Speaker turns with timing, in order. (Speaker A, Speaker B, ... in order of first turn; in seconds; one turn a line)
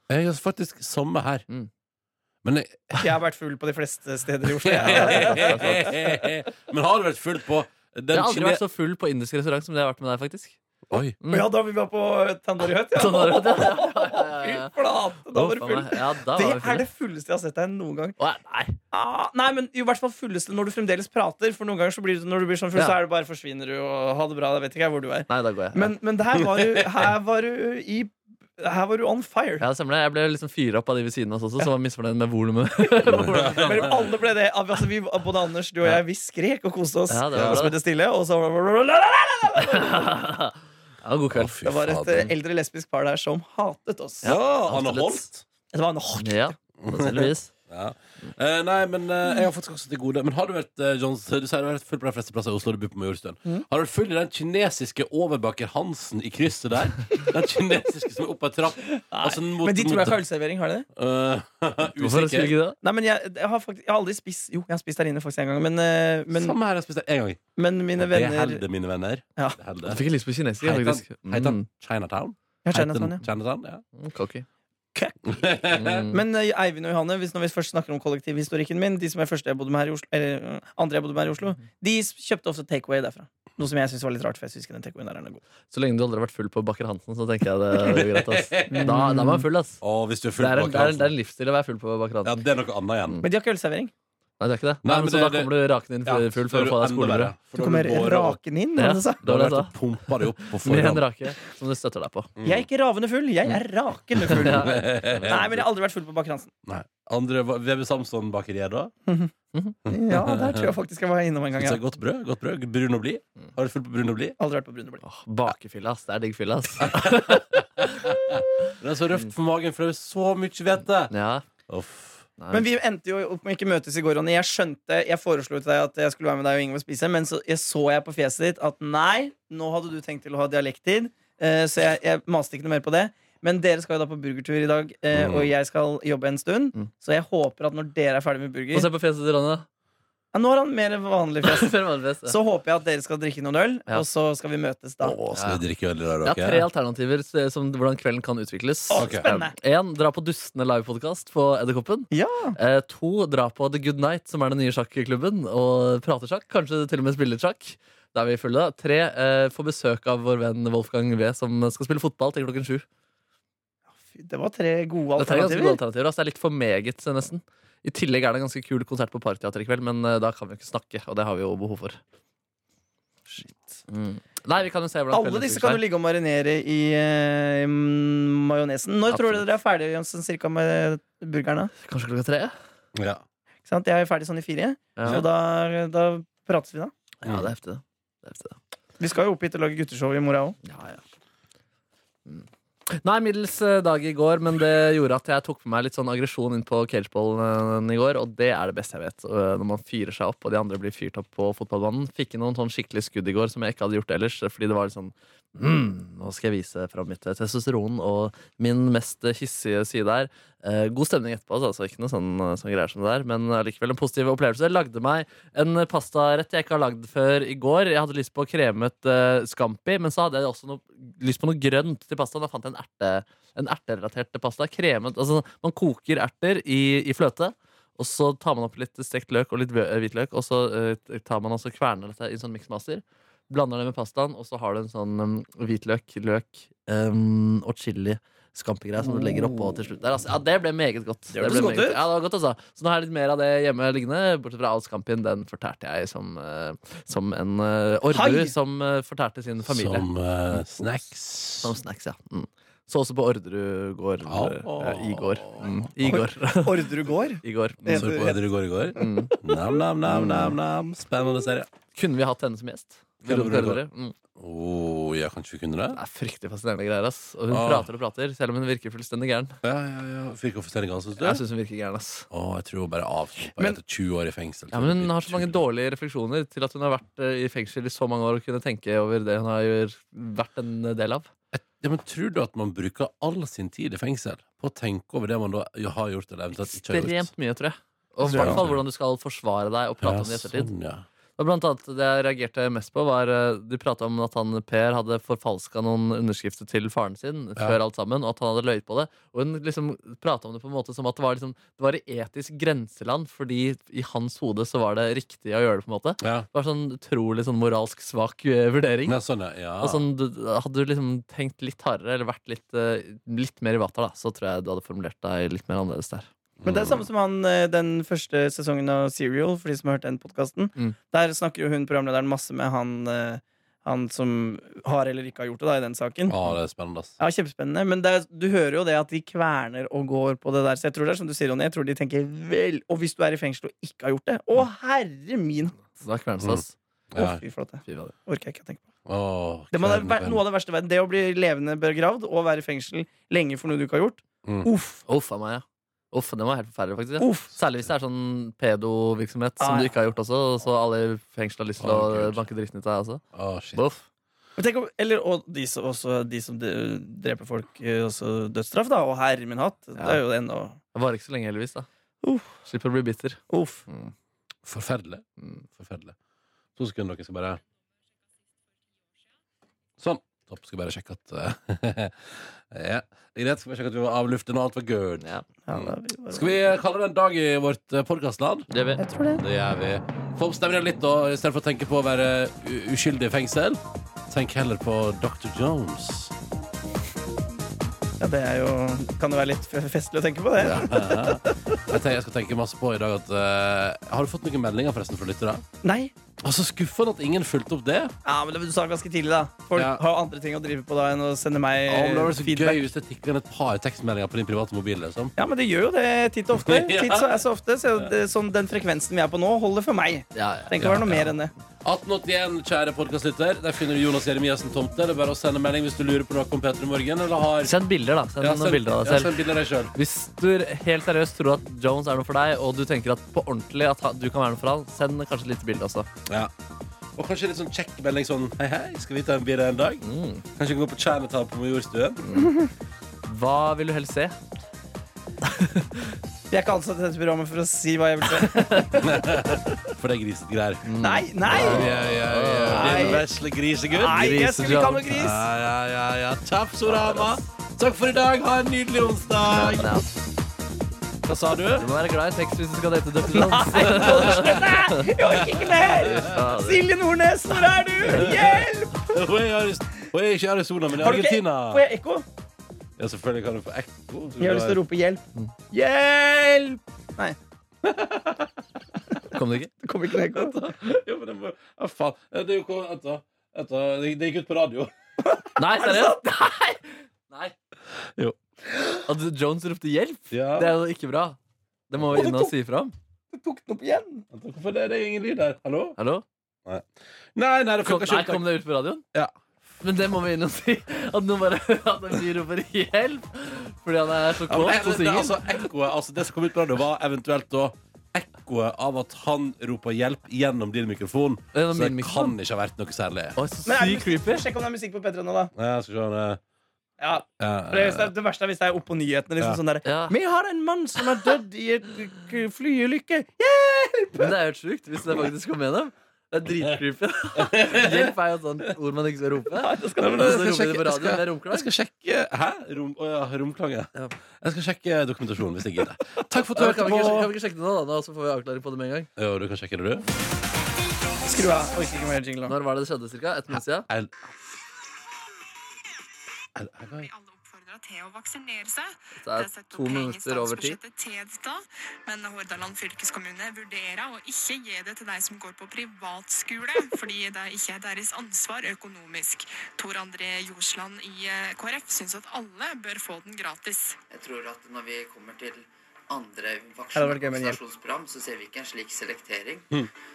Speaker A: 0.1-1.4
Speaker A: 2.4-3.0
Speaker B: 3.0-6.0
Speaker A: 4.6-8.6
Speaker C: 4.8-5.9
Speaker C: 8.1-10.6
Speaker A: 10.9-11.2
Speaker C: 11.2-11.5
Speaker B: 11.3-18.2
Speaker C: 12.9-14.7
Speaker C: 15.3-16.9
Speaker C: 18.2-18.8
Speaker B: 18.9-29.6
Speaker C: 25.3-25.9
Speaker A: 26.3-27.1
Speaker C: 29.6-33.9
Speaker A: 33.0-34.0
Speaker B: 33.2-40.1
Speaker C: 37.1-37.8
Speaker A: 37.3-37.7
Speaker C: 39.6-41.5
Speaker A: 41.3-42.3
Speaker B: 41.6-44.3
Speaker C: 44.2-45.3
Speaker A: 44.2-45.4
Speaker B: 45.7-46.5
Speaker C: 46.2-47.5
Speaker A: 46.8-60.2
Speaker B: 59.0-60.9
Speaker A: 60.9-62.5
Speaker C: 62.0-62.8
Speaker B: 62.8-66.6
Speaker A: 66.3-67.4
Speaker B: 67.6-68.6
Speaker A: 68.0-70.0
Speaker C: 69.8-71.7
Speaker A: 70.6-73.8
Speaker B: 72.6-73.2
Speaker C: 74.0-74.5
Speaker B: 74.9-75.4
Speaker A: 75.2-76.0
Speaker C: 75.7-76.2
Speaker B: 76.1-85.4
Speaker C: 85.7-89.8
Speaker A: 87.8-88.9
Speaker B: 88.7-89.5
Speaker A: 89.8-91.1
Speaker C: 90.4-92.4
Speaker A: 92.2-93.2
Speaker B: 93.2-93.9
Speaker C: 94.4-97.3
Speaker A: 94.8-95.5
Speaker A: 96.0-98.4
Speaker B: 97.5-99.2
Speaker C: 98.8-102.3
Speaker A: 99.2-101.0
Speaker A: 102.4-102.7
Speaker B: 102.4-106.5
Speaker A: 104.2-105.6
Speaker C: 104.2-105.4
Speaker A: 106.6-108.9
Speaker B: 109.1-109.3
Speaker A: 109.8-110.7
Speaker B: 109.9-111.8
Speaker A: 111.5-114.3
Speaker B: 114.4-115.0
Speaker C: 115.0-118.1
Speaker A: 116.8-121.1
Speaker C: 121.1-121.4
Speaker A: 121.7-122.2
Speaker C: 122.4-122.7
Speaker B: 122.5-138.9
Speaker A: 135.1-135.5
Speaker C: 138.7-139.7
Speaker B: 140.3-145.2
Speaker C: 141.4-142.3
Speaker A: 145.0-146.7
Speaker C: 145.3-145.6
Speaker C: 146.2-162.8
Speaker B: 148.9-149.5
Speaker A: 149.0-149.2
Speaker B: 152.1-152.6
Speaker B: 164.1-165.8
Speaker C: 165.2-172.0
Speaker C: 173.9-175.8
Speaker B: 175.1-181.7
Speaker C: 179.1-179.4
Speaker C: 181.8-182.5
Speaker A: 182.9-183.2
Speaker B: 183.7-186.9
Speaker C: 185.0-185.2
Speaker C: 187.2-188.6
Speaker A: 187.2-187.5
Speaker B: 189.0-190.6
Speaker C: 190.6-191.0
Speaker C: 192.2-250.6
Speaker B: 241.3-242.0
Speaker B: 248.1-248.5
Speaker A: 249.7-251.7
Speaker C: 251.6-258.1
Speaker A: 254.2-255.9
Speaker B: 256.0-258.4
Speaker A: 257.9-261.7
Speaker C: 258.9-259.4
Speaker C: 260.1-260.5
Speaker C: 261.9-264.1
Speaker A: 263.2-263.8
Speaker A: 264.3-266.0
Speaker C: 265.9-269.6
Speaker A: 267.5-267.9
Speaker A: 269.6-271.4
Speaker C: 271.2-272.2
Speaker A: 272.3-275.6
Speaker C: 274.7-281.3
Speaker A: 281.5-287.3
Speaker C: 286.6-290.7
Speaker B: 288.2-288.6
Speaker A: 288.3-288.8
Speaker A: 290.0-291.0
Speaker C: 291.4-309.2
Speaker A: 306.2-306.5
Speaker A: 309.1-310.0
Speaker C: 309.8-316.3
Speaker A: 316.6-317.1
Speaker B: 316.6-326.4
Speaker A: 326.3-327.1
Speaker B: 327.2-335.9
Speaker C: 336.0-336.7
Speaker A: 336.4-337.4
Speaker B: 337.1-338.8
Speaker C: 337.9-338.1
Speaker A: 339.1-340.4
Speaker B: 339.7-345.0
Speaker A: 344.4-344.7
Speaker C: 345.1-353.2
Speaker B: 347.2-347.5
Speaker B: 349.6-349.9
Speaker A: 351.8-352.4
Speaker A: 353.3-353.8
Speaker C: 353.7-354.0
Speaker B: 354.6-360.8
Speaker C: 360.9-361.9
Speaker B: 362.2-362.6
Speaker C: 362.6-364.1
Speaker B: 363.5-363.8
Speaker A: 364.6-366.1
Speaker A: 366.8-367.6
Speaker A: 370.0-378.7
Speaker B: 375.7-376.6
Speaker C: 378.7-379.0
Speaker B: 379.0-379.4
Speaker A: 379.3-386.3
Speaker B: 388.2-391.8
Speaker A: 390.6-395.6
Speaker B: 395.8-396.1
Speaker A: 396.4-398.1
Speaker B: 398.2-402.8
Speaker A: 399.8-400.0
Speaker A: 401.9-405.3
Speaker B: 405.4-411.5
Speaker A: 406.6-407.4
Speaker C: 410.3-411.2
Speaker A: 410.8-411.3
Speaker A: 411.8-417.7
Speaker C: 417.6-419.4
Speaker A: 418.4-419.9
Speaker C: 419.9-426.1
Speaker A: 427.1-430.0
Speaker C: 430.0-430.4
Speaker A: 430.6-432.2
Speaker C: 432.2-432.5
Speaker C: 433.2-434.4
Speaker C: 435.4-436.2
Speaker B: 436.5-439.3
Speaker C: 438.4-439.0
Speaker A: 439.0-440.9
Speaker C: 440.8-443.2
Speaker B: 441.0-441.9
Speaker A: 441.5-444.4
Speaker B: 442.7-443.2
Speaker C: 444.0-445.3
Speaker B: 444.0-445.4
Speaker A: 445.1-450.0
Speaker C: 446.9-447.3
Speaker C: 449.5-450.1
Speaker A: 451.2-451.9
Speaker C: 451.8-455.1
Speaker B: 453.3-459.1
Speaker A: 453.8-454.6
Speaker A: 455.4-456.4
Speaker C: 456.0-456.8
Speaker A: 458.1-461.8
Speaker B: 461.0-462.2
Speaker A: 463.0-464.8
Speaker B: 464.4-467.4
Speaker A: 467.8-468.5
Speaker C: 469.3-469.7
Speaker B: 469.8-470.6
Speaker A: 470.3-474.9
Speaker B: 475.2-476.2
Speaker C: 475.6-477.5
Speaker C: 479.1-481.4
Speaker A: 480.3-480.7
Speaker C: 481.9-482.9
Speaker A: 482.1-482.5
Speaker B: 483.3-484.2
Speaker A: 484.3-486.0
Speaker C: 486.0-486.2
Speaker A: 486.6-488.5
Speaker C: 487.8-489.0
Speaker C: 489.8-495.5
Speaker A: 494.5-503.4
Speaker C: 501.5-502.4
Speaker C: 503.4-504.4
Speaker B: 503.6-505.5
Speaker A: 505.5-506.4
Speaker B: 507.0-514.3
Speaker A: 507.4-508.1
Speaker C: 509.8-510.1
Speaker C: 514.2-521.7
Speaker A: 517.3-518.1
Speaker B: 519.5-520.5
Speaker A: 520.0-527.3
Speaker C: 526.5-529.1
Speaker A: 529.2-530.0
Speaker B: 531.2-532.5
Speaker C: 532.5-533.9
Speaker A: 533.5-534.1
Speaker A: 536.5-537.1
Speaker D: 536.9-554.0
Speaker C: 539.2-540.8
Speaker E: 554.1-559.6
Speaker B: 556.9-557.6